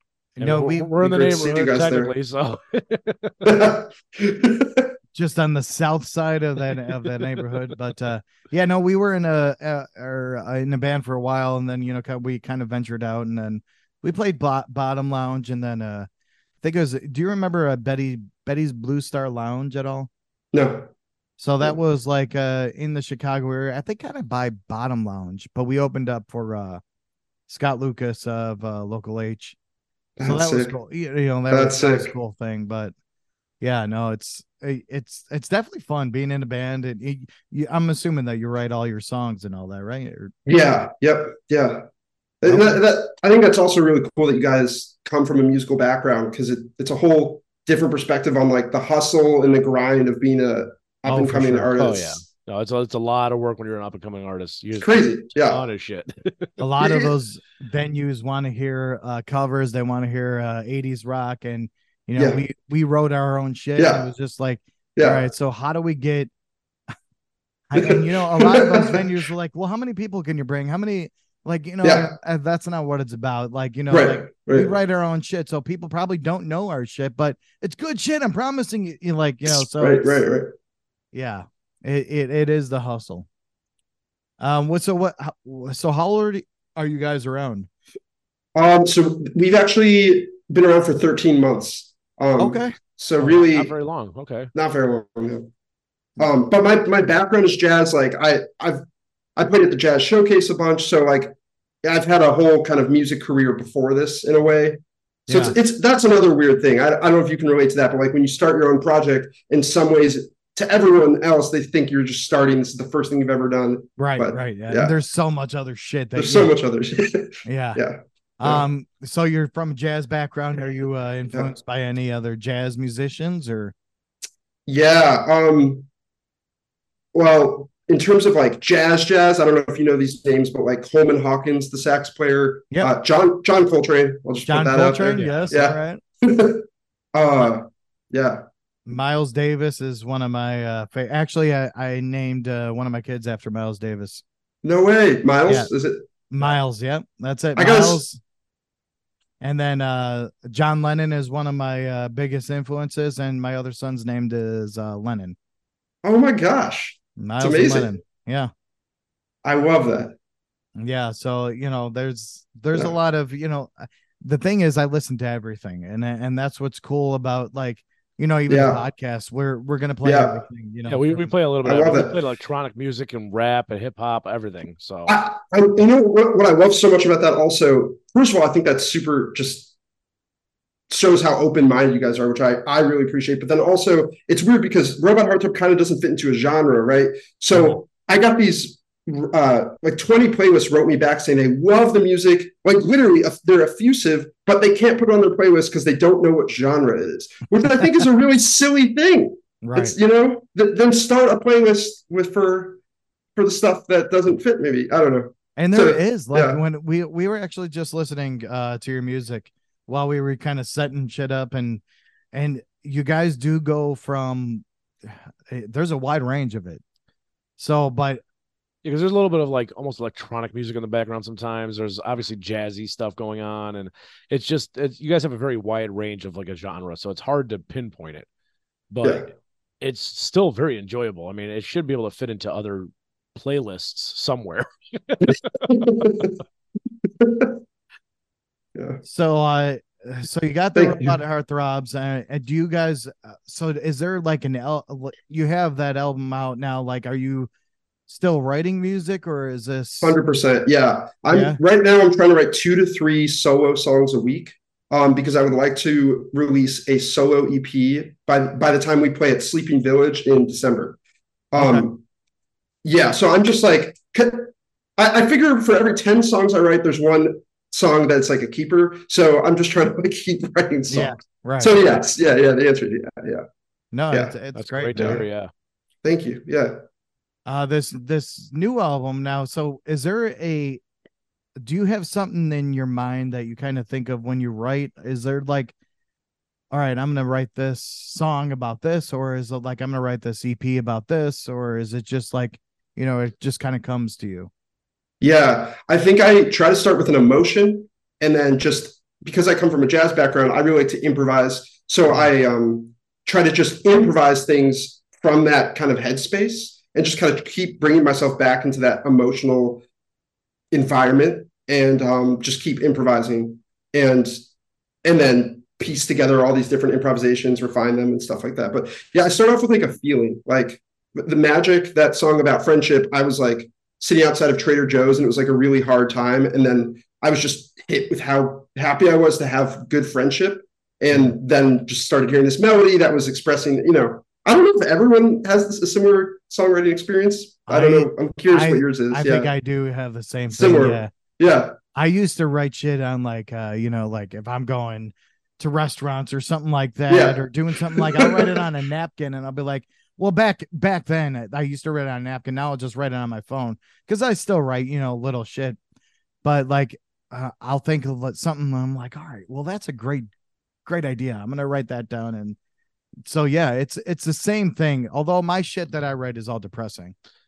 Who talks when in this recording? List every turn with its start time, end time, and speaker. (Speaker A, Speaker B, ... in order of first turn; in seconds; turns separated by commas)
Speaker A: 0.3-0.9, Speaker B: 0.4-3.5, Speaker C: 1.0-2.1, Speaker C: 3.4-4.9, Speaker A: 5.1-16.1, Speaker A: 16.6-20.1, Speaker C: 20.5-20.9, Speaker A: 21.4-26.8, Speaker A: 27.5-29.6, Speaker C: 30.2-30.7, Speaker A: 30.2-32.9, Speaker C: 31.5-32.1, Speaker A: 33.6-40.3, Speaker C: 40.5-41.8, Speaker C: 42.4-52.2, Speaker A: 42.4-42.8, Speaker A: 51.0-51.7, Speaker B: 51.8-56.5, Speaker C: 54.8-55.6, Speaker A: 56.6-66.3, Speaker C: 56.8-57.1, Speaker C: 62.1-62.4, Speaker C: 63.8-64.0, Speaker C: 65.0-65.2, Speaker A: 67.7-80.2, Speaker C: 67.8-69.2, Speaker C: 71.8-72.1, Speaker C: 73.9-74.7, Speaker C: 79.5-80.5, Speaker A: 81.1-83.3, Speaker A: 84.4-87.7, Speaker C: 88.5-93.7, Speaker A: 92.4-92.7, Speaker B: 93.2-94.5, Speaker C: 94.5-95.5, Speaker C: 96.2-98.8, Speaker C: 99.3-101.3, Speaker C: 101.8-114.9, Speaker A: 105.3-105.5, Speaker A: 114.0-116.5, Speaker C: 116.2-118.6, Speaker A: 117.4-117.8, Speaker A: 118.4-123.7, Speaker C: 124.7-125.8, Speaker C: 127.1-138.4, Speaker A: 134.4-136.0, Speaker B: 135.2-135.5, Speaker A: 138.9-144.2, Speaker C: 144.6-146.5, Speaker A: 146.3-148.2, Speaker C: 147.6-148.0, Speaker A: 149.4-155.3, Speaker C: 156.0-157.9, Speaker A: 157.2-158.5, Speaker C: 159.4-160.2, Speaker A: 160.8-171.3, Speaker C: 168.5-168.8, Speaker C: 170.0-170.4, Speaker B: 170.9-175.2, Speaker C: 171.6-172.2, Speaker C: 175.1-179.7, Speaker C: 180.9-202.8, Speaker A: 199.6-199.9, Speaker C: 203.3-206.6, Speaker A: 205.6-211.8, Speaker A: 212.3-216.8, Speaker A: 217.6-218.2, Speaker B: 218.8-228.3, Speaker B: 228.9-235.5, Speaker C: 235.7-236.3, Speaker C: 237.2-237.5, Speaker C: 238.7-239.0, Speaker A: 239.0-247.5, Speaker C: 240.7-241.2, Speaker A: 248.1-250.2, Speaker C: 250.0-261.0, Speaker A: 251.3-251.6, Speaker C: 261.5-262.0, Speaker A: 261.6-261.8, Speaker C: 262.8-273.4, Speaker A: 270.9-271.8, Speaker A: 273.9-275.2, Speaker C: 274.1-274.4, Speaker B: 274.5-275.5, Speaker C: 274.9-275.2, Speaker C: 276.0-276.8, Speaker A: 277.4-280.8, Speaker A: 281.6-285.7, Speaker A: 286.7-294.5, Speaker C: 295.2-309.8, Speaker C: 310.7-314.4, Speaker C: 315.0-339.5, Speaker A: 337.7-341.1, Speaker C: 340.5-341.8, Speaker A: 341.9-355.8, Speaker C: 347.1-348.6, Speaker A: 356.4-360.3, Speaker A: 360.9-362.6, Speaker A: 363.2-367.1